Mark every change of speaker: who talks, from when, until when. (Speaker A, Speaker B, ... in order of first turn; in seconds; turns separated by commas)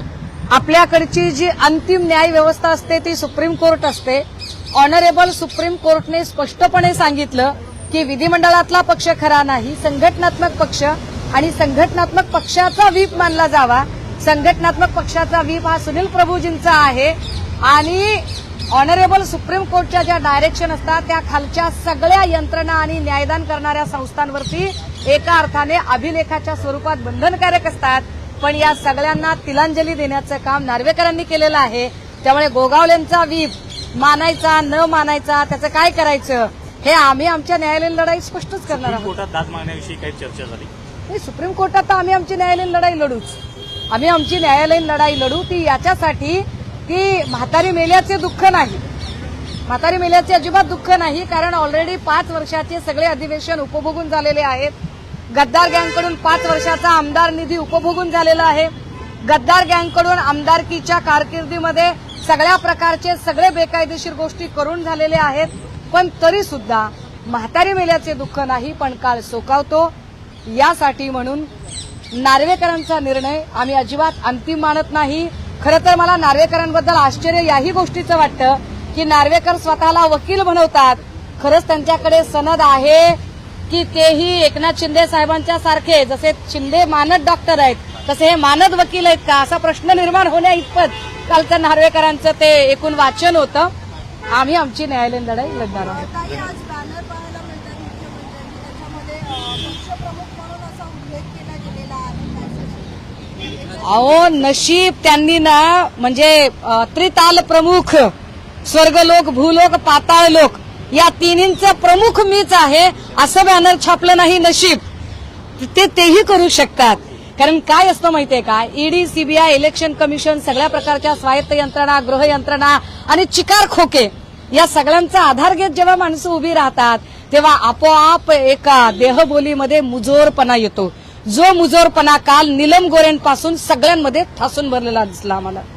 Speaker A: 0.5-39.1, Speaker B: 38.7-40.7, Speaker A: 41.1-43.4, Speaker A: 43.9-48.8, Speaker A: 49.7-54.7, Speaker A: 55.3-58.7, Speaker A: 59.2-69.9, Speaker A: 70.5-71.5, Speaker A: 72.1-83.2, Speaker A: 83.7-93.7, Speaker A: 94.3-96.1, Speaker C: 95.9-104.1, Speaker B: 96.2-96.5, Speaker A: 103.8-108.1, Speaker A: 108.7-114.8, Speaker A: 115.6-135.7